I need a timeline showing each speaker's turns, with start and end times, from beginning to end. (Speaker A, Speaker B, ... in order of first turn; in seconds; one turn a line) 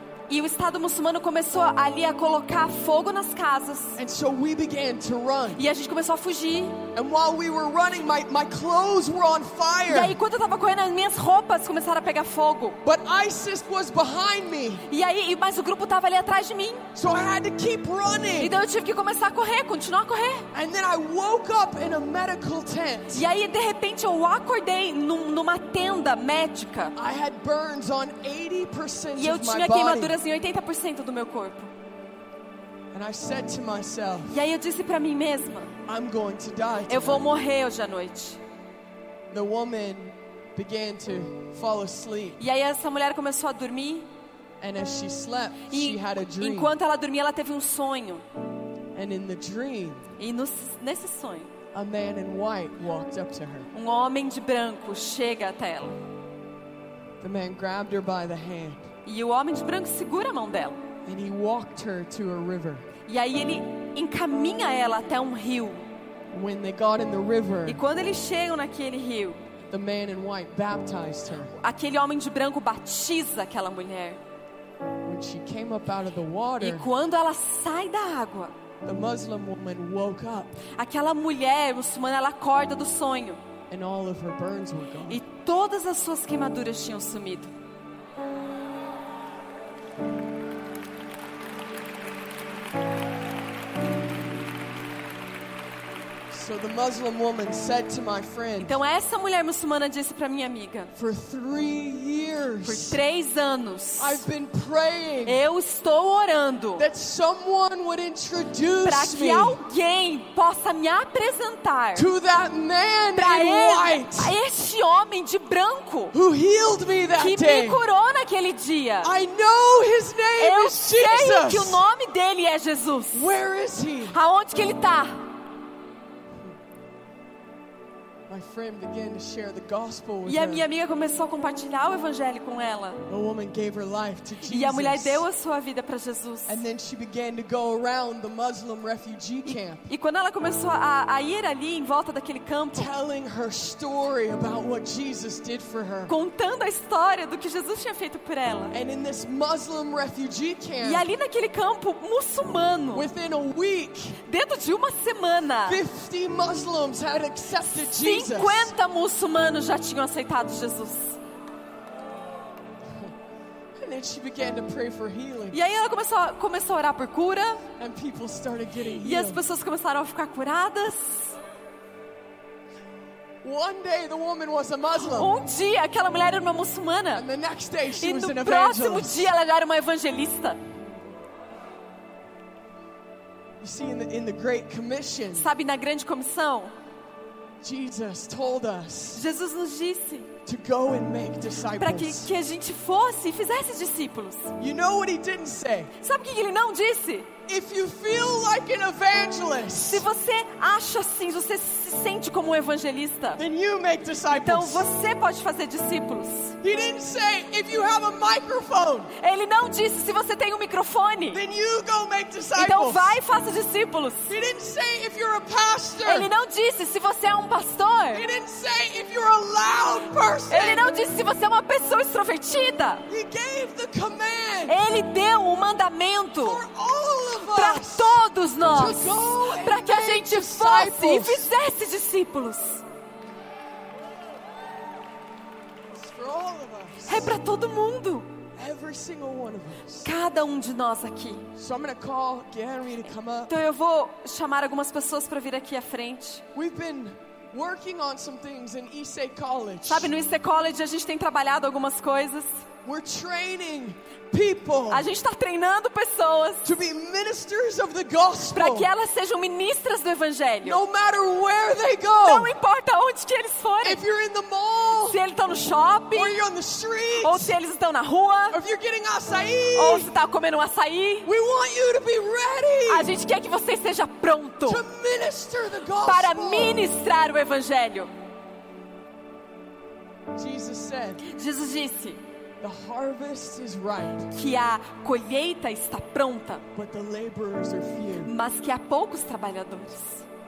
Speaker A: 0.3-4.0
Speaker B: 4.0-5.6
Speaker A: 5.5-6.8
Speaker B: 6.9-10.2
Speaker A: 9.9-12.8
Speaker B: 12.8-14.8
Speaker A: 14.9-16.9
Speaker B: 16.9-18.6
Speaker A: 18.4-20.5
Speaker B: 20.5-23.2
Speaker A: 23.1-26.9
Speaker B: 26.9-30.2
Speaker A: 29.1-31.7
Speaker B: 32.9-34.3
Speaker A: 34.3-35.7
Speaker B: 35.9-37.2
Speaker A: 36.9-38.4
Speaker B: 39.3-42.4
Speaker A: 42.4-44.1
Speaker B: 44.6-46.7
Speaker A: 45.7-48.2
Speaker B: 48.9-50.1
Speaker A: 50.2-51.5
Speaker B: 51.7-53.7
Speaker A: 53.7-56.0
Speaker B: 57.2-58.9
Speaker A: 59.0-60.8
Speaker B: 61.0-62.9
Speaker A: 63.1-65.8
Speaker B: 66.3-67.8
Speaker A: 67.7-69.4
Speaker B: 69.6-71.5
Speaker A: 71.5-74.2
Speaker B: 75.0-76.9
Speaker A: 76.6-78.5
Speaker B: 78.8-80.6
Speaker A: 80.7-83.4
Speaker B: 83.7-85.2
Speaker A: 85.1-87.5
Speaker B: 96.3-98.8
Speaker A: 98.6-100.9
Speaker B: 101.0-103.0
Speaker A: 102.6-104.2
Speaker B: 104.0-105.4
Speaker A: 105.2-106.8
Speaker B: 106.8-109.6
Speaker A: 108.8-112.1
Speaker B: 111.9-114.3
Speaker A: 113.1-116.1
Speaker B: 116.1-117.8
Speaker A: 117.2-119.1
Speaker B: 119.0-121.8
Speaker A: 120.4-123.3
Speaker B: 123.1-124.2
Speaker A: 124.1-125.3
Speaker B: 128.3-130.6
Speaker A: 130.2-133.0
Speaker B: 133.1-135.2
Speaker A: 134.5-136.6
Speaker B: 136.5-139.8
Speaker A: 139.4-142.9
Speaker B: 142.7-146.1
Speaker A: 146.1-148.8
Speaker B: 148.7-151.1
Speaker A: 150.8-153.1
Speaker B: 152.9-154.2
Speaker A: 154.2-155.8
Speaker B: 155.7-158.7
Speaker A: 157.7-161.2
Speaker B: 163.8-165.6
Speaker A: 165.5-167.6
Speaker B: 167.8-169.4
Speaker A: 169.0-171.3
Speaker B: 173.4-175.3
Speaker A: 175.1-177.2
Speaker B: 177.1-179.3
Speaker A: 177.9-180.6
Speaker B: 183.6-185.5
Speaker A: 185.3-186.7
Speaker B: 187.6-189.2
Speaker A: 189.1-190.3
Speaker B: 190.4-192.3
Speaker A: 191.8-194.5
Speaker B: 194.6-195.9
Speaker A: 196.0-197.3
Speaker B: 197.5-200.0
Speaker A: 199.9-203.4
Speaker B: 203.4-204.8
Speaker A: 204.3-206.6
Speaker B: 206.6-209.1
Speaker A: 209.2-211.4
Speaker B: 211.3-213.2
Speaker A: 212.6-214.3
Speaker B: 214.3-216.3
Speaker A: 216.0-218.2
Speaker B: 218.1-220.8
Speaker A: 220.5-223.0
Speaker B: 223.1-224.8
Speaker A: 224.7-226.6
Speaker B: 226.4-228.2
Speaker A: 227.5-232.8
Speaker B: 228.7-231.5
Speaker B: 235.9-237.3
Speaker A: 237.1-238.3
Speaker B: 238.5-240.1
Speaker A: 240.0-241.4
Speaker B: 241.6-243.6
Speaker A: 243.5-246.4
Speaker B: 246.5-250.1
Speaker A: 249.9-252.6
Speaker B: 252.8-255.1
Speaker A: 254.9-256.8
Speaker B: 256.6-258.9
Speaker A: 258.5-260.8
Speaker B: 260.6-262.5
Speaker A: 262.2-264.0
Speaker B: 263.8-265.2
Speaker A: 265.1-266.4
Speaker B: 266.1-267.5
Speaker A: 267.2-268.6
Speaker B: 268.5-270.1
Speaker A: 269.8-271.3
Speaker B: 271.2-273.1
Speaker A: 272.9-274.8
Speaker B: 274.6-276.8
Speaker A: 276.0-278.1
Speaker B: 280.3-281.2
Speaker A: 281.2-282.2
Speaker B: 282.6-284.3
Speaker A: 284.3-286.6
Speaker B: 286.7-288.3
Speaker A: 288.2-290.2